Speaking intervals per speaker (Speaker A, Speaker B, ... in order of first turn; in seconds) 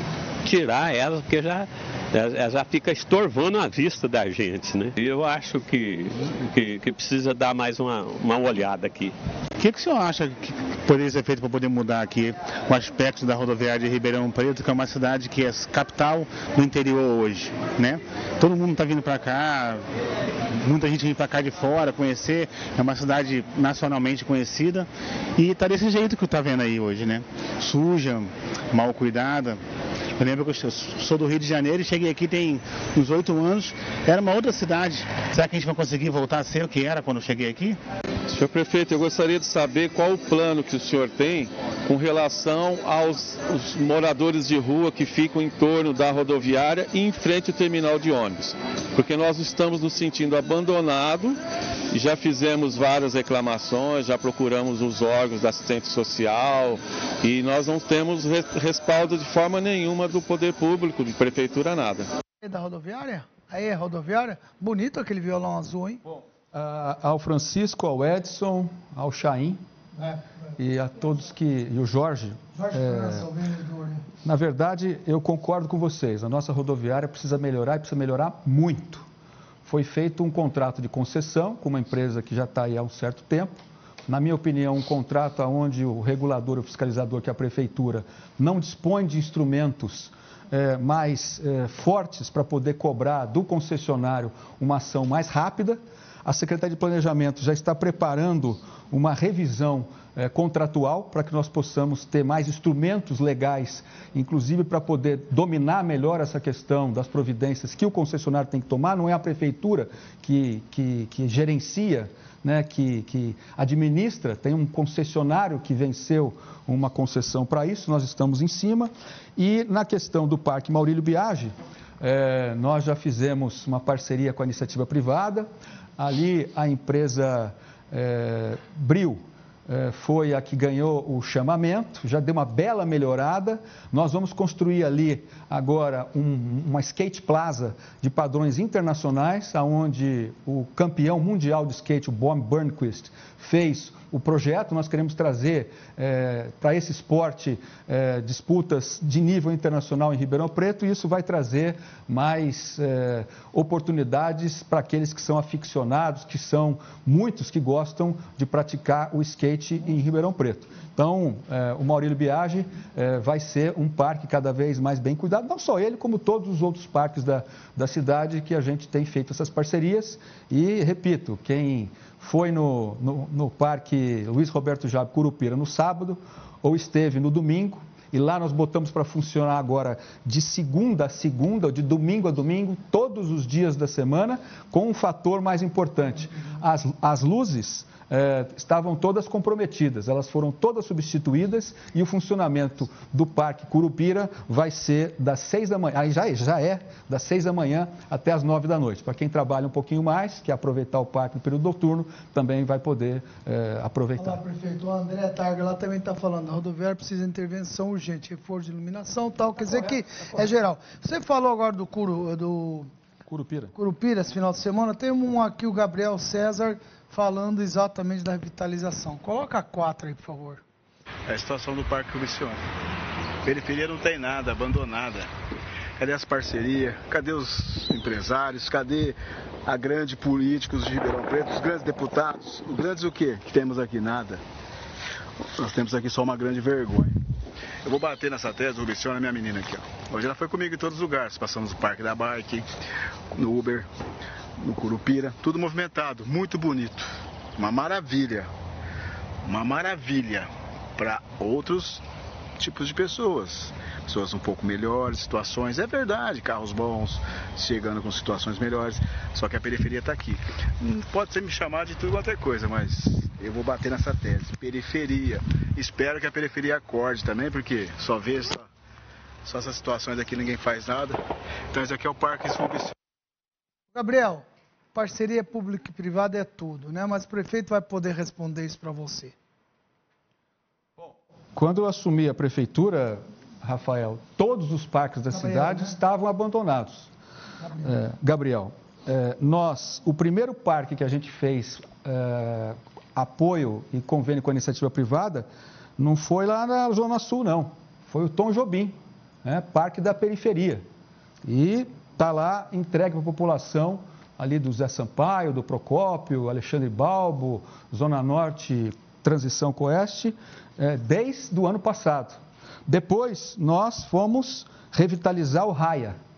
Speaker A: 0.4-9.2
Speaker B: 9.6-19.9, 20.6-29.6, 30.2-37.8
Speaker C: 38.3-51.4, 51.9-62.1
Speaker D: 62.4-66.0, 70.0-70.5, 72.5-74.1, 204.2-212.9, 213.8-220.6, 273.9-279.3, 285.3-285.9, 287.6-287.9
Speaker E: 66.1-69.6, 70.6-73.3, 74.2-79.0, 79.7-83.5, 84.1-204.4, 209.6-210.4, 213.3-213.7, 281.0-287.1, 287.8-295.5, 296.0-300.9, 301.4-316.2
Speaker F: 221.3-222.6, 223.4-225.3, 226.0-234.4, 235.5-237.2, 237.8-242.7, 243.3-243.9, 244.6-248.5, 249.4-252.0, 252.6-268.7, 269.4-271.2, 271.7-272.9